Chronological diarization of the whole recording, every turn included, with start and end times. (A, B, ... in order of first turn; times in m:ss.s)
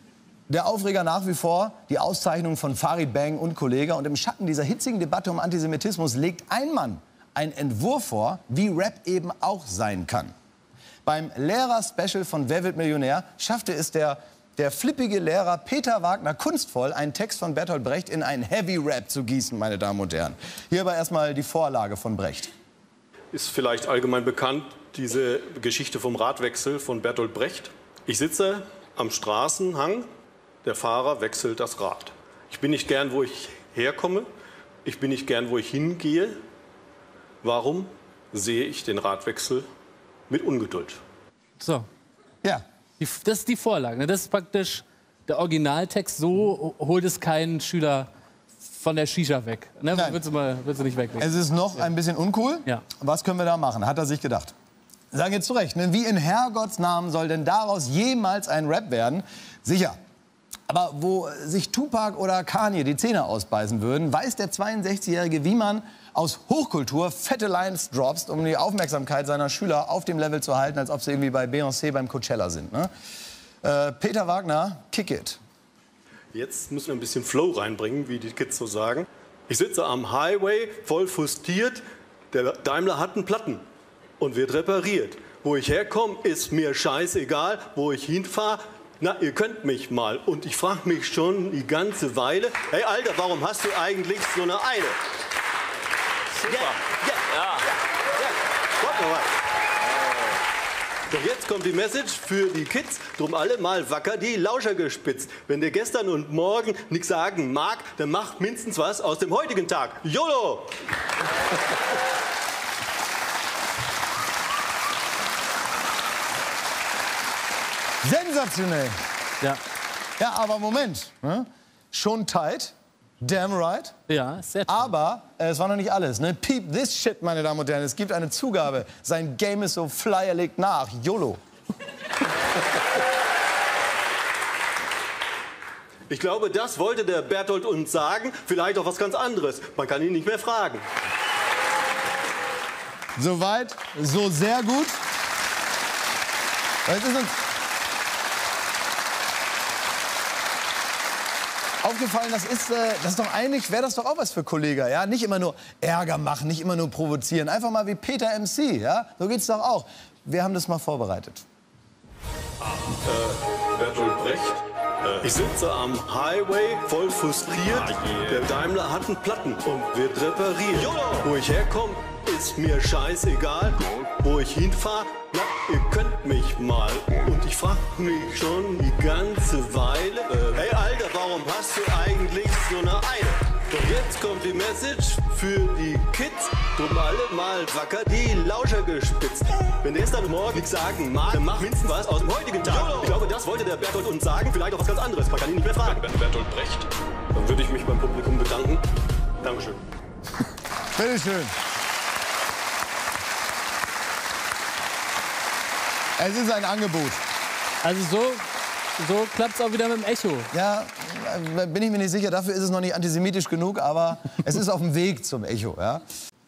0:00.5-0:10.3 A
0:11.0-0:22.5 A
0:23.3-0:30.1 B
0:30.6-0:34.3 B
0:34.8-0:36.4 B
0:37.4-0:39.7 B
0:40.3-0:41.0 B
0:41.6-0:41.9 C
0:43.0-0:48.1 C
0:48.7-0:51.4 C
0:49.9-0:50.2 A
0:51.2-0:54.5 A
0:55.1-1:00.0 A
1:00.7-1:12.9 A
1:13.6-1:15.4 A
1:16.3-1:23.6 B
1:24.2-1:35.0 B
1:36.4-1:37.6 B
1:38.2-1:39.3 B
1:41.1-1:50.8 B
1:58.0-1:59.0 A
2:00.2-2:04.0 A
2:04.1-2:04.9 C
2:04.7-2:11.4 A
2:16.1-2:20.8 B
2:23.2-2:25.0 A
2:26.9-2:27.4 A
2:31.8-2:41.4 A
2:42.8-3:18.8 B
3:19.4-3:19.8 B
3:21.0-3:21.5 A
3:26.2-3:27.2 A
3:27.8-3:28.4 C
3:29.0-3:30.5 C
3:30.5-3:36.0 A